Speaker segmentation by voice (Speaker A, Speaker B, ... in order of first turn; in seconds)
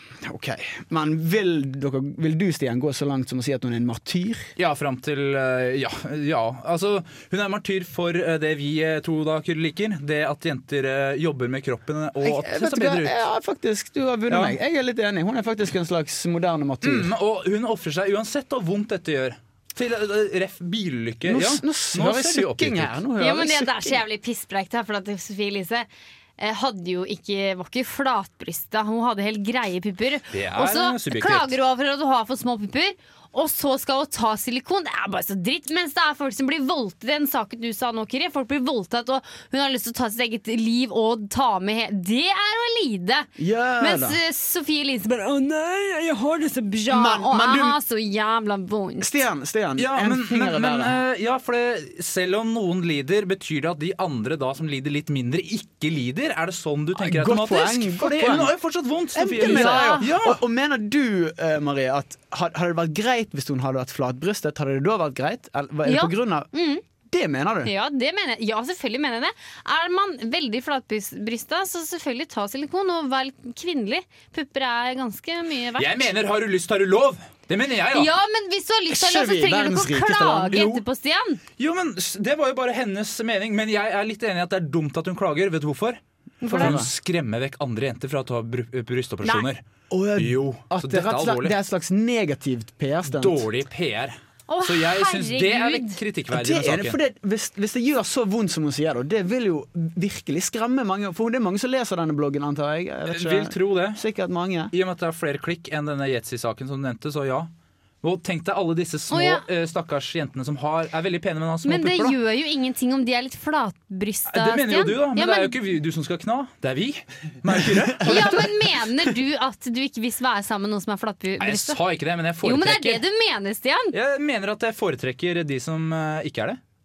Speaker A: 0.2-4.5, 12.2-17.1, 21.2-24.0, 43.4-44.2, 46.9-47.8, 49.0-51.0, 57.0-58.5, 59.1-66.5, 67.1-67.7, 78.9-80.8, 86.5-86.9, 89.9-93.5, 96.3-104.7, 117.6-118.4
Speaker B: 4.6-13.2, 14.3-14.6, 16.8-23.0, 30.3-31.5, 49.8-60.4, 75.8-78.1, 81.6-86.0, 86.5-89.6, 90.2-91.5, 93.1-97.0, 103.1-104.0, 104.7-107.5, 108.0-112.2, 114.3-118.5, 121.4-123.0, 123.9-126.6
Speaker C: 23.2-43.3, 43.8-49.1, 59.4-60.1, 65.8-66.8, 67.6-76.1, 77.9-81.4, 86.4-86.8, 94.5-96.0, 109.1-109.4, 111.6-115.5, 118.0-121.8, 122.4-124.0